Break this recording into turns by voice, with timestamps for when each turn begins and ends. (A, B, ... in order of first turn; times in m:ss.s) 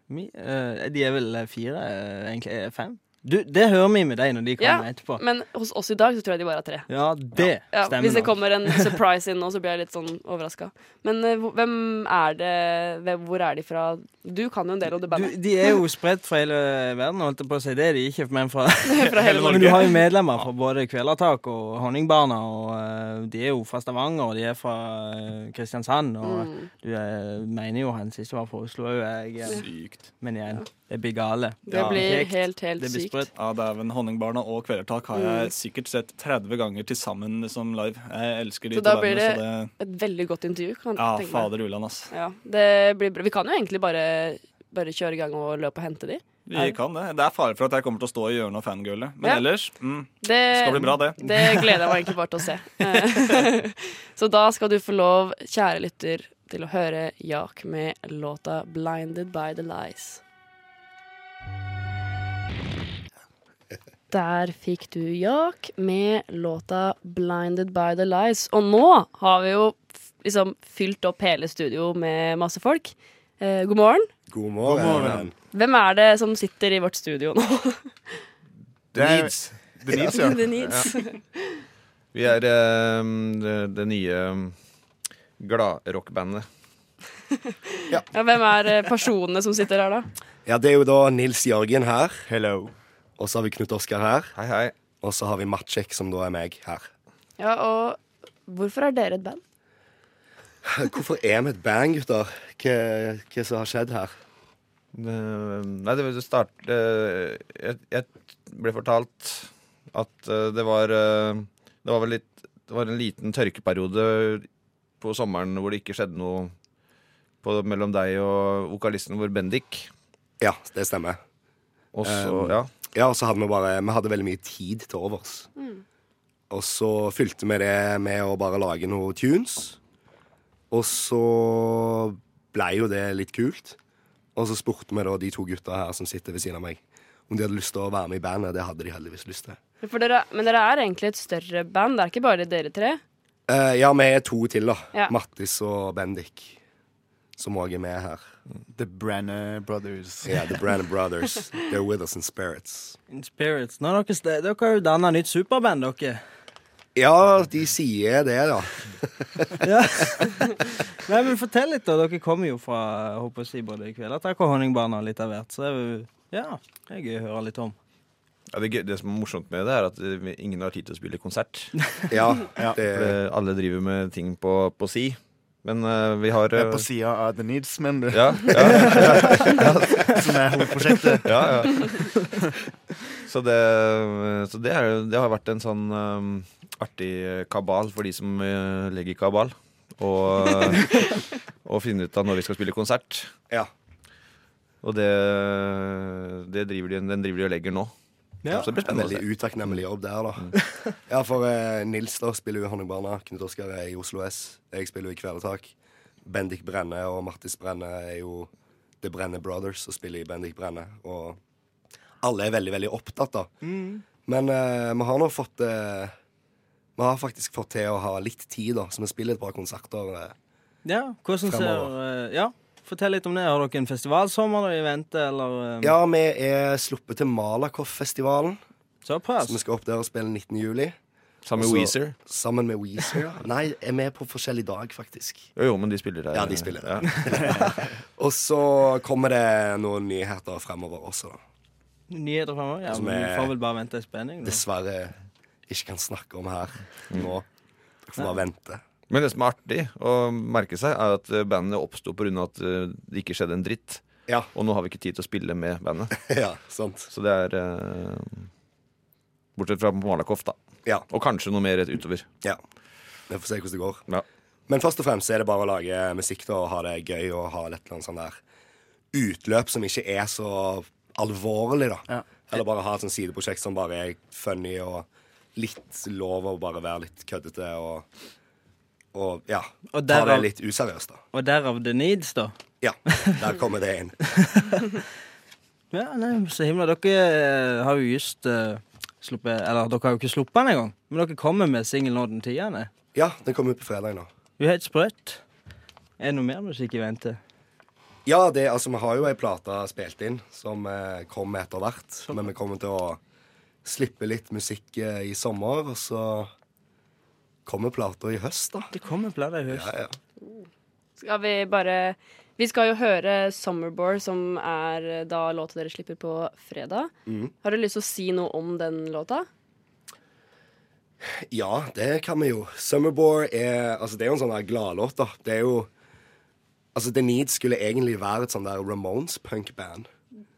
0:00.1-0:05.2 A
0:04.6-0:06.9 B
0:06.9-0:08.9 A
0:07.7-0:15.7 B
0:15.1-0:29.6 A
0:18.9-0:19.8 B
0:19.2-0:20.5 C
0:26.2-0:26.7 B
0:29.4-0:30.1 C
0:30.2-0:33.3 A
0:31.7-0:33.3 B
0:31.7-0:32.1 C
0:33.3-0:39.7 C
0:35.1-0:35.5 B
0:38.7-0:41.5 B
0:41.0-0:42.1 C
0:42.1-0:46.8 B
0:46.5-0:52.0 C
0:50.2-1:00.2 B
1:04.1-1:14.1 B
1:14.3-1:15.3 D
1:14.6-1:15.3 E
1:15.5-1:17.9 B
1:18.9-1:19.9 F
1:18.9-1:20.5 E
1:20.0-1:21.6 B
1:20.6-1:20.9 F
1:22.1-1:24.5 F
1:25.4-1:26.5 F
1:27.5-1:30.1 B
1:30.5-1:32.2 D
1:32.3-1:32.7 E
1:33.2-1:34.3 D
1:34.3-1:34.7 F
1:35.0-1:36.9 D
1:37.4-1:39.4 B
1:40.6-1:44.1 D
1:44.9-1:54.5 F
1:55.0-1:56.5 F
1:57.4-1:59.9 F
2:00.4-2:01.2 D
2:01.9-2:02.7 F
2:02.0-2:05.5 D
2:05.6-2:05.8 B
2:06.5-2:09.8 D
2:10.7-2:13.8 D
2:14.3-2:19.6 D
2:19.8-2:23.0 B
2:23.5-2:26.6 D
2:27.4-2:28.2 D
2:28.7-2:30.4 E
2:30.2-2:33.0 D
2:33.1-2:36.2 A
2:37.0-2:39.6 D
2:39.6-2:47.8 A
2:48.5-2:51.7 F
2:52.1-2:53.2 D
2:52.8-2:56.9 F
2:56.5-3:02.2 E
2:58.1-3:00.2 F
3:01.2-3:02.1 F
3:03.3-3:11.1 F
3:11.6-3:13.3 F
3:14.8-3:17.9 F
3:18.4-3:18.7 A
3:18.5-3:19.2 F
3:18.5-3:20.5 D
3:21.1-3:25.7 D
3:26.2-3:28.5 D
3:29.0-3:31.4 D
3:32.2-3:33.5 D
3:33.6-3:34.0 A
3:34.3-3:36.1 D
3:37.0-3:40.3 D
3:40.8-3:46.0 A
3:41.5-3:41.9 D
3:45.8-3:48.6 D
3:49.0-3:49.6 A
3:49.4-3:51.0 D
3:51.4-3:52.2 F
3:51.6-3:55.5 D
3:55.6-3:57.8 F
3:56.3-4:01.4 D
4:02.1-4:04.6 A
4:02.9-4:03.5 D
4:04.4-4:05.2 D
4:05.7-4:07.4 D
4:08.0-4:08.8 D
4:09.1-4:16.2 F
4:16.2-4:17.1 D
4:17.1-4:18.5 F
4:19.6-4:20.6 F
4:21.1-4:22.3 F
4:23.3-4:24.0 D
4:24.7-4:28.4 D
4:29.1-4:38.0 D
4:39.1-4:41.2 D
4:39.9-4:40.5 A
4:41.3-4:42.5 A
4:42.8-4:44.2 D
4:44.4-4:44.8 A
4:45.9-4:52.9 A
4:53.1-4:54.3 D
4:54.6-4:55.4 A
4:56.2-4:57.4 A
4:58.2-5:03.2 D
5:03.8-5:06.5 D
5:07.6-5:08.9 D
5:08.9-5:09.9 A
5:09.7-5:10.2 D
5:11.2-5:17.1 B
5:17.2-5:17.5 D
5:17.6-5:19.5 B
5:21.2-5:25.9 D
5:26.9-5:30.1 D